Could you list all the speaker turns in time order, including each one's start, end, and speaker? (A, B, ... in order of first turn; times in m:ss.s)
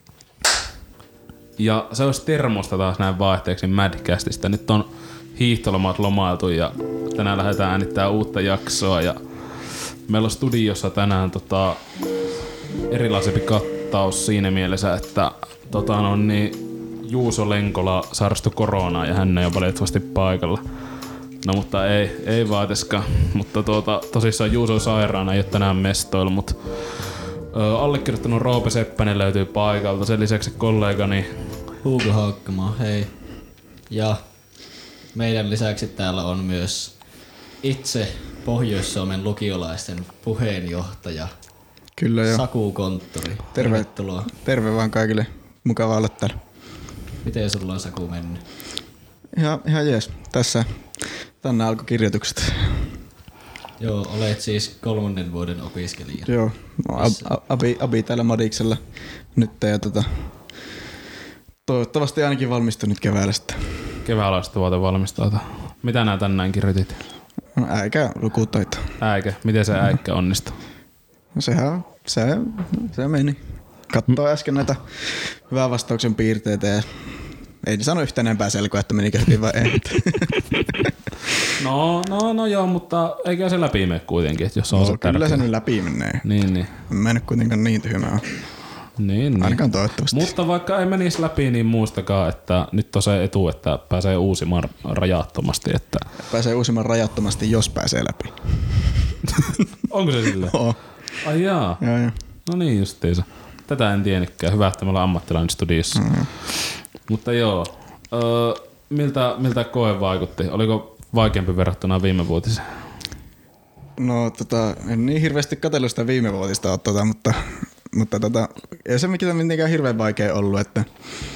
0:01.6-0:11.9 A
0:12.9-0:20.8 A
0:21.4-0:31.7 A
0:31.8-0:34.6 B
0:35.1-0:41.3 B
0:42.0-0:42.5 C
0:42.2-0:44.3 B
0:43.5-0:46.4 C
0:47.2-0:48.4 B
0:49.4-0:50.8 C
0:51.4-0:53.0 C
0:53.8-0:56.3 B
0:56.2-0:58.8 C
0:57.0-0:57.2 B
0:59.3-1:00.3 C
1:01.6-1:03.9 C
1:04.0-1:07.0 A
1:07.5-1:09.0 C
1:09.0-1:10.6 A
1:11.3-1:17.0 C
1:17.6-1:20.4 C
1:21.6-1:25.5 A
1:24.7-1:26.2 C
1:26.2-1:26.8 A
1:26.9-1:28.3 C
1:29.0-1:36.1 A
1:29.4-1:30.3 C
1:36.3-1:39.2 C
1:39.9-1:40.6 A
1:40.4-1:40.8 C
1:41.2-1:41.8 A
1:41.8-1:42.2 C
1:42.4-1:52.9 A
1:45.9-1:46.3 C
1:54.0-2:00.9 C